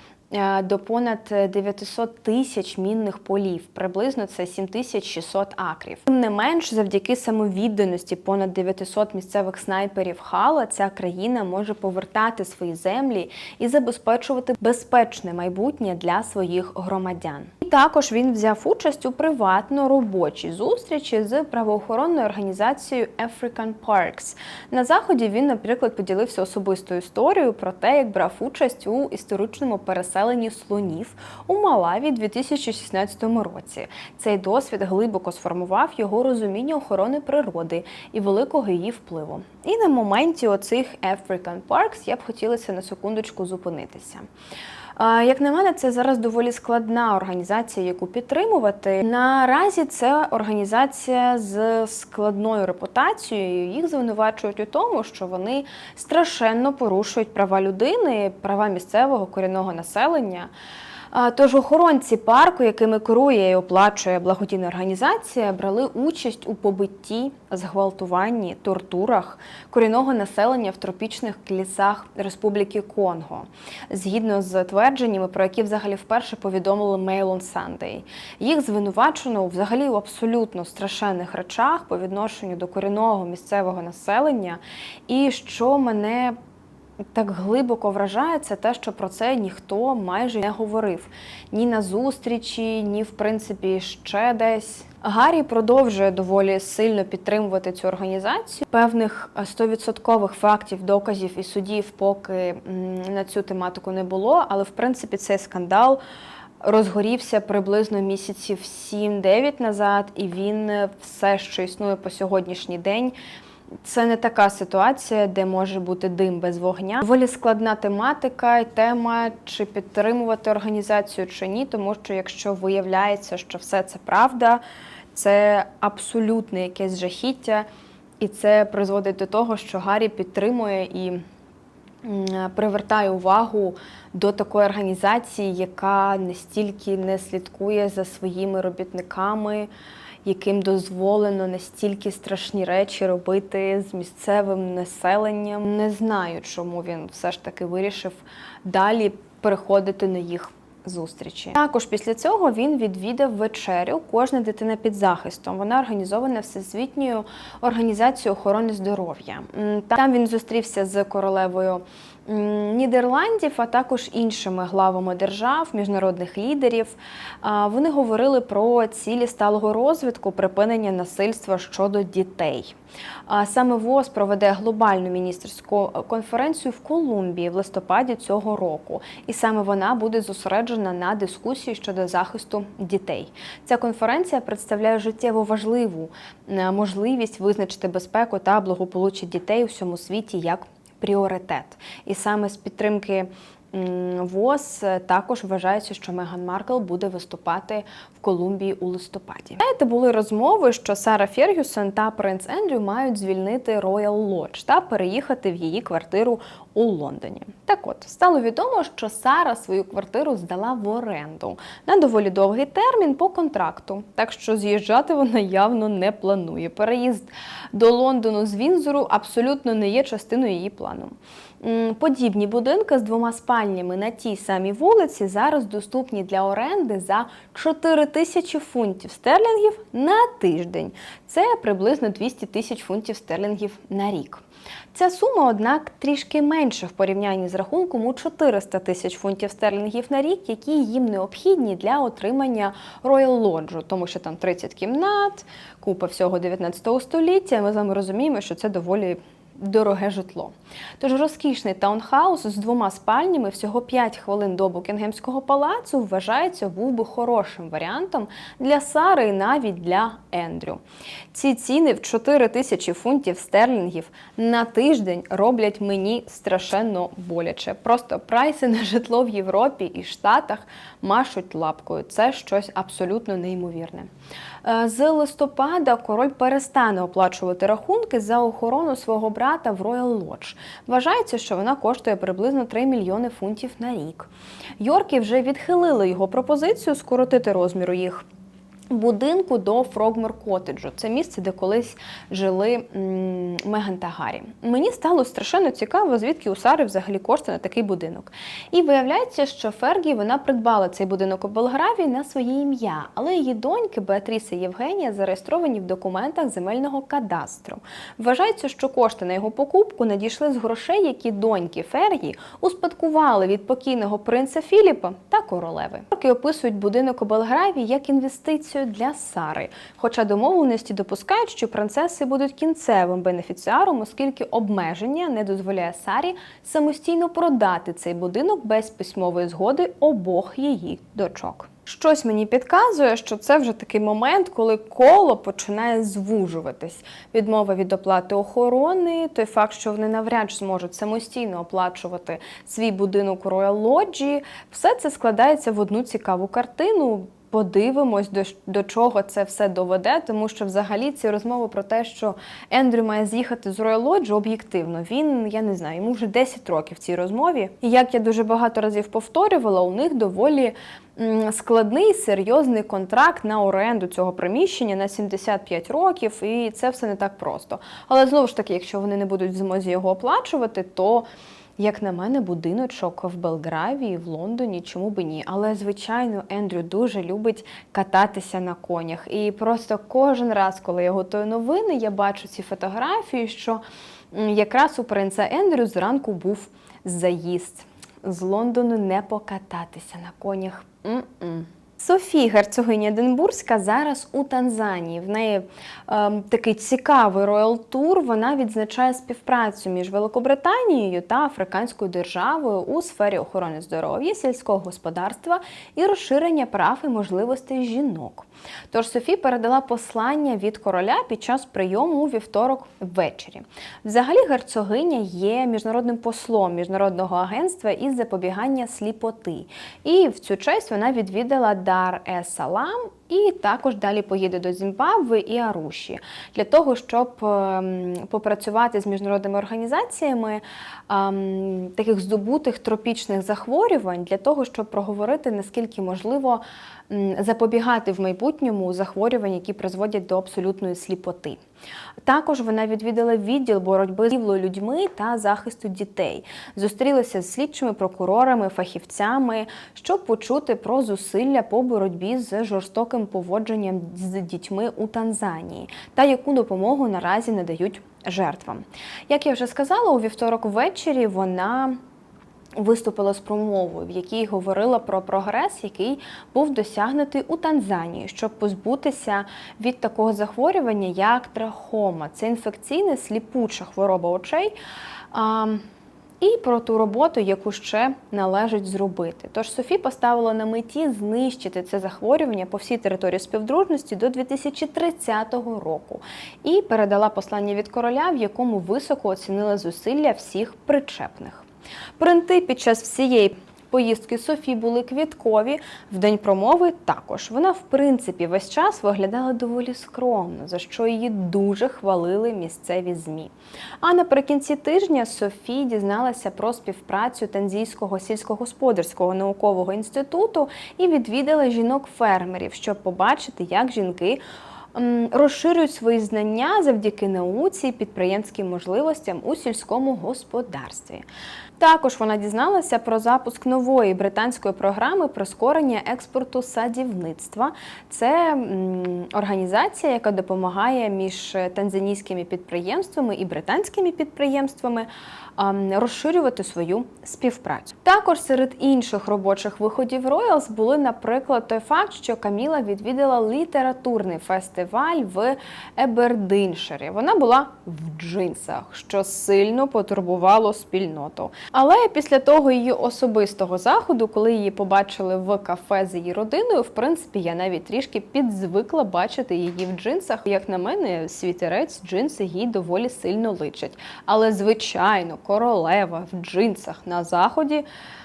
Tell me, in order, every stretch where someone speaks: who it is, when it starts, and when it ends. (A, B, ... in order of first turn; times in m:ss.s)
0:00.3-0:44.2 A
0:45.0-1:00.5 A
1:01.1-1:26.3 A
1:27.1-1:46.0 A
1:46.6-1:53.1 A
1:53.8-2:04.6 A
2:05.1-2:07.6 A
2:08.2-2:11.2 A
2:12.0-2:19.7 A
2:20.2-2:52.7 A
2:53.3-3:54.4 A
3:54.9-4:34.1 A
4:34.6-4:48.2 A
4:48.9-6:11.3 A
6:11.8-7:21.6 A
7:22.2-7:42.0 A
7:42.8-7:54.7 A
7:55.3-7:55.8 A
7:56.4-8:11.6 A
8:12.2-8:34.4 A
8:34.9-8:41.2 A
8:41.8-9:27.8 A